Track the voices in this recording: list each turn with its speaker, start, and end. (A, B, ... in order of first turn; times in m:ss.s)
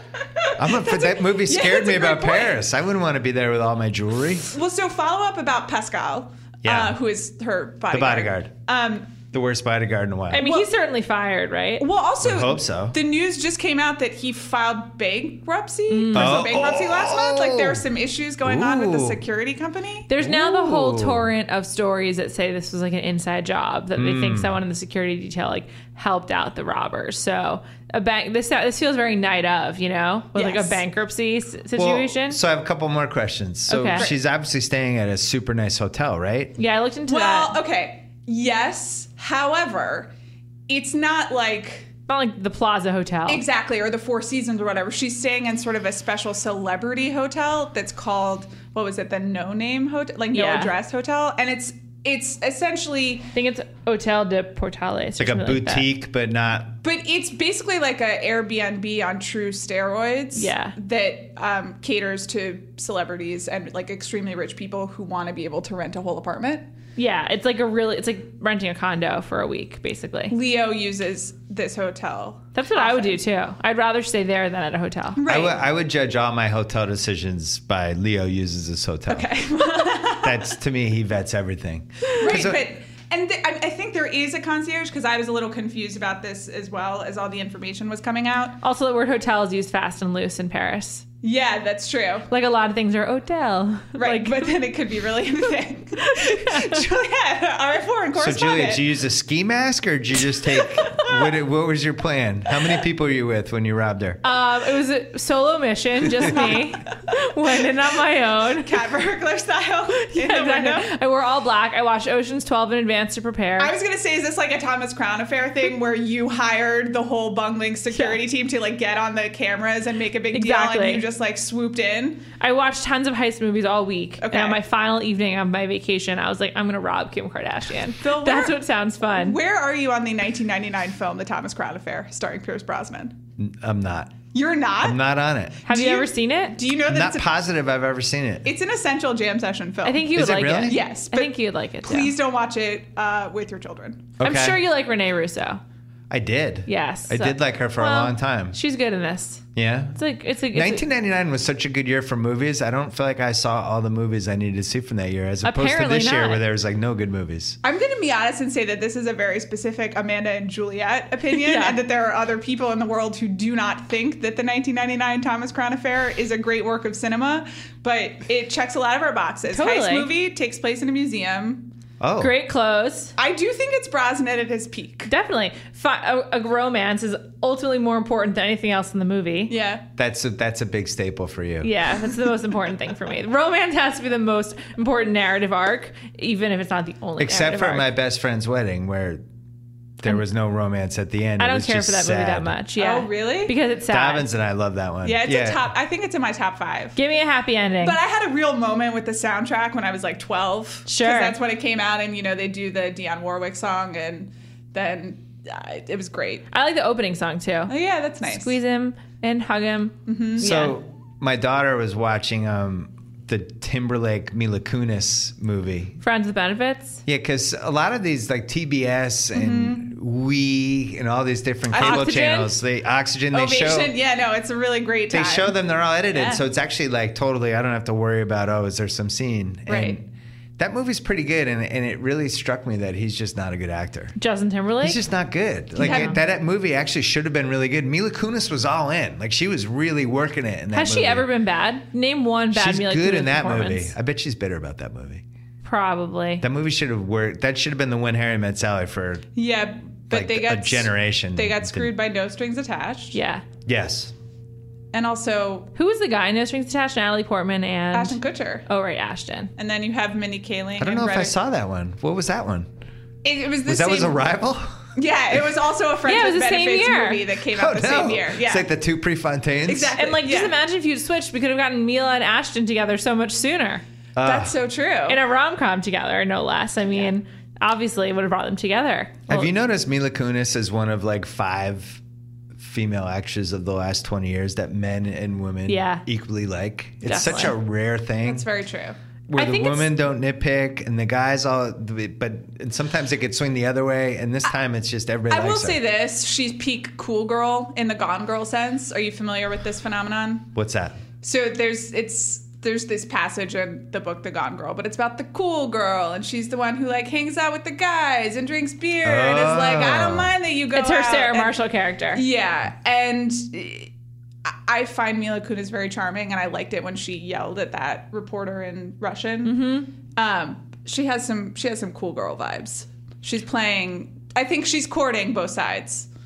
0:00.4-0:02.6 A
0:00.6-0:04.5 B
0:04.5-0:09.1 A
0:06.6-0:07.0 B
0:07.9-0:08.5 B
0:09.3-0:10.4 B
0:10.3-0:11.9 C
0:10.4-0:10.7 A
0:11.8-0:20.1 A
0:12.2-0:13.0 B
0:15.9-0:16.4 C
0:16.1-0:17.8 B
0:18.4-0:19.2 B
0:20.1-0:32.4 C
0:20.2-0:21.3 B
0:24.0-0:24.6 B
0:30.4-0:30.8 A
0:31.8-0:36.6 B
0:33.7-0:34.1 C
0:36.6-0:37.6 C
0:37.1-0:40.1 A
0:40.7-0:41.9 A
0:42.1-0:43.4 C
0:43.3-0:53.3 A
0:50.3-0:50.7 C
0:53.3-0:55.9 C
0:55.2-0:56.8 B
0:56.8-1:06.6 A
1:00.4-1:00.8 C
1:07.0-1:10.4 C
1:10.3-1:13.2 A
1:12.6-1:15.2 C
1:15.2-1:15.6 A
1:15.3-1:19.4 B
1:19.1-1:20.6 A
1:20.0-1:22.6 B
1:22.2-1:28.6 A
1:28.6-1:31.0 C
1:31.2-1:32.3 A
1:32.3-1:34.5 C
1:34.0-1:38.8 A
1:36.1-1:36.8 C
1:38.2-1:44.2 B
1:40.5-1:41.4 A
1:44.2-1:48.8 C
1:46.1-1:46.8 A
1:48.6-1:50.9 A
1:49.9-1:53.7 C
1:53.6-2:02.2 A
1:57.9-1:58.2 C
2:00.3-2:01.0 C
2:02.4-2:09.4 C
2:04.2-2:04.6 A
2:08.0-2:08.6 A
2:09.1-2:13.2 A
2:13.4-2:14.2 B
2:14.3-2:15.0 A
2:14.8-2:15.6 B
2:15.6-2:17.4 A
2:15.7-2:16.6 C
2:16.9-2:18.5 B
2:18.4-2:20.2 A
2:19.8-2:22.1 C
2:20.2-2:20.8 B
2:20.7-2:24.2 A
2:24.2-2:25.6 C
2:24.2-2:24.6 B
2:26.1-2:28.6 B
2:26.7-2:30.8 C
2:29.5-2:37.6 B
2:35.4-2:36.4 C
2:37.6-2:51.7 A
2:41.3-2:41.8 C
2:49.5-2:50.1 C
2:52.0-2:52.3 B
2:52.2-2:53.1 C
2:53.2-2:55.1 A
2:55.1-2:59.5 C
2:59.5-2:59.9 A
3:00.0-3:01.7 B
3:01.6-3:07.9 C
3:07.2-3:09.2 B
3:10.0-3:12.6 B
3:11.4-3:14.3 C
3:12.8-3:13.6 A
3:13.9-3:15.7 B
3:15.0-3:17.0 A
3:17.0-3:18.0 C
3:17.8-3:26.5 A
3:20.9-3:21.4 C
3:26.5-3:27.7 C
3:27.7-3:28.6 A
3:28.2-3:30.8 C
3:30.1-3:30.5 A
3:30.4-3:36.0 B
3:36.0-3:37.0 C
3:37.1-3:44.0 B
3:39.3-3:39.9 A
3:41.7-3:42.1 A
3:41.8-3:42.5 C
3:43.3-3:46.4 A
3:45.1-3:50.1 B
3:49.7-3:50.0 A
3:50.6-3:54.2 B
3:54.2-3:55.0 C
3:54.8-4:01.3 B
3:55.8-3:56.2 A
3:55.8-3:56.2 C
4:00.7-4:03.9 C
4:02.5-4:05.2 B
4:05.6-4:06.4 C
4:06.4-4:09.3 B
4:09.4-4:13.2 A
4:10.1-4:11.9 B
4:13.1-4:13.4 C
4:13.7-4:14.1 B
4:14.9-4:15.7 A
4:15.8-4:19.5 C
4:17.9-4:18.7 A
4:19.6-4:21.4 A
4:20.8-4:22.7 B
4:23.2-4:24.2 A
4:23.6-4:24.9 B
4:25.0-4:28.7 A
4:26.1-4:27.2 C
4:27.5-4:30.0 B
4:29.6-4:30.6 A
4:30.0-4:33.8 C
4:34.2-4:34.5 B
4:34.2-4:35.2 A
4:35.1-4:39.5 C
4:39.3-4:42.0 B
4:42.6-4:48.5 B
4:45.7-4:46.0 C
4:47.0-4:47.6 C
4:48.2-4:49.0 A
4:49.3-4:55.8 B
4:49.4-4:49.9 C
4:55.3-5:00.5 A
5:00.6-5:01.0 B
5:01.2-5:11.6 A
5:09.0-5:10.3 B
5:10.7-5:12.2 C
5:12.1-5:13.9 A
5:14.4-5:26.1 A
5:19.4-5:19.9 C